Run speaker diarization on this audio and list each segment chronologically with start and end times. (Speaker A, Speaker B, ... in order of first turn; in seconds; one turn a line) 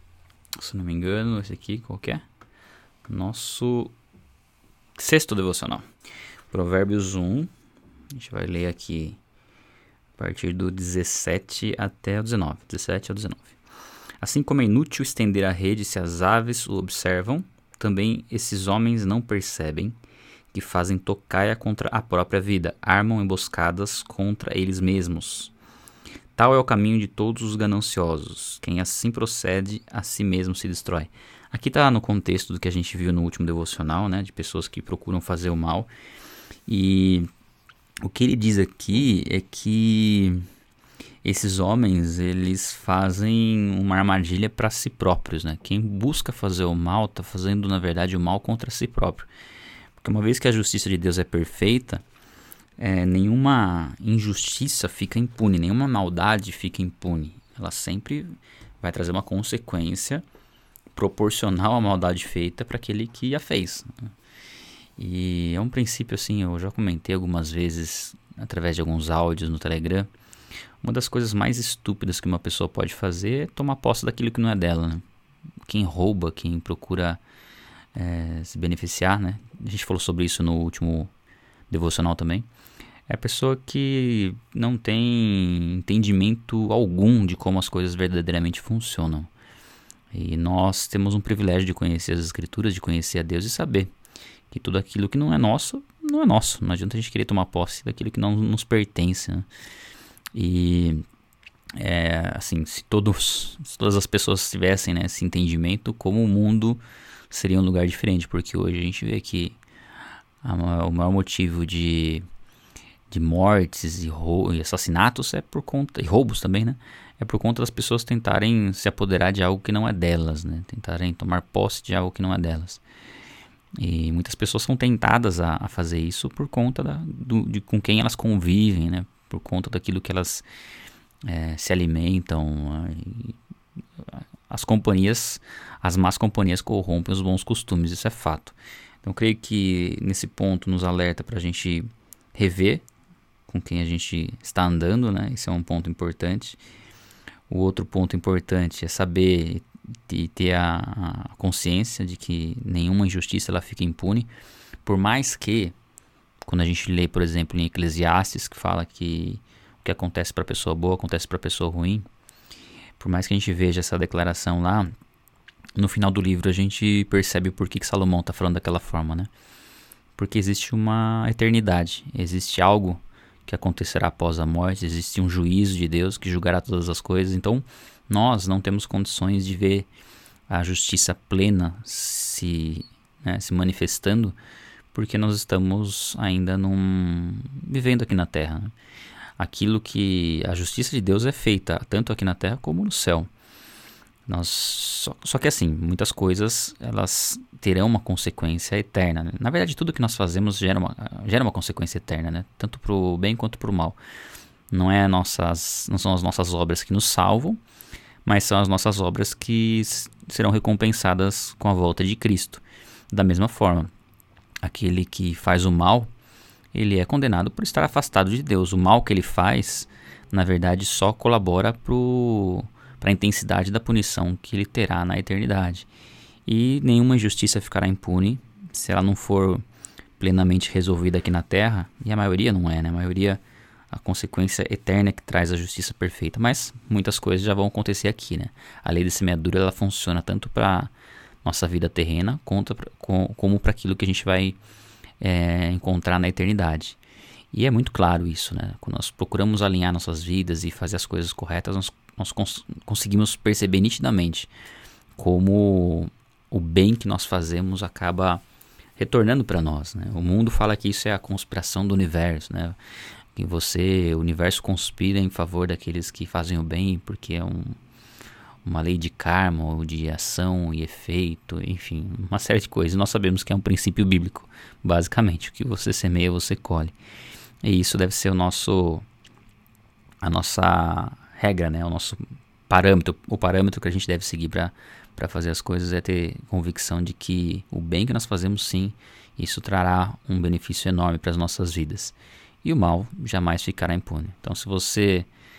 Speaker A: 0.6-2.2
Speaker A: 3.0-3.9
Speaker A: 5.0-5.9
Speaker A: 6.5-7.5
Speaker A: 8.1-9.2
Speaker A: 10.2-13.6
Speaker A: 14.2-19.9
Speaker A: 20.5-25.5
Speaker A: 26.3-35.9
Speaker A: 36.7-37.3
Speaker A: 38.0-40.5
Speaker A: 41.2-49.3
Speaker A: 50.0-52.0
Speaker A: 52.8-60.2
Speaker A: 60.9-64.1
Speaker A: 65.0-70.1
Speaker A: 70.8-75.0
Speaker A: 75.6-77.2
Speaker A: 77.9-81.1
Speaker A: 81.7-82.5
Speaker A: 83.1-89.3
Speaker A: 90.1-93.9
Speaker A: 94.5-99.5
Speaker A: 100.3-101.0
Speaker A: 101.7-109.6
Speaker A: 110.4-112.2
Speaker A: 113.1-122.8
Speaker A: 123.8-130.4
Speaker A: 131.2-133.3
Speaker A: 134.2-142.8
Speaker A: 143.5-146.6
Speaker A: 147.5-154.3
Speaker A: 154.8-155.7
Speaker A: 156.4-162.1
Speaker A: 163.0-164.9
Speaker A: 165.7-169.3
Speaker A: 170.2-179.9
Speaker A: 180.5-184.3
Speaker A: 184.9-188.7
Speaker A: 189.4-193.3
Speaker A: 194.3-204.0
Speaker A: 204.7-207.6
Speaker A: 208.2-213.9
Speaker A: 214.6-216.1
Speaker A: 216.7-225.9
Speaker A: 226.4-229.6
Speaker A: 230.2-240.9
Speaker A: 241.4-244.6
Speaker A: 245.2-247.0
Speaker A: 247.5-254.5
Speaker A: 255.2-258.4
Speaker A: 259.0-262.8
Speaker A: 263.4-267.8
Speaker A: 268.6-276.9
Speaker A: 277.6-279.1
Speaker A: 280.2-295.3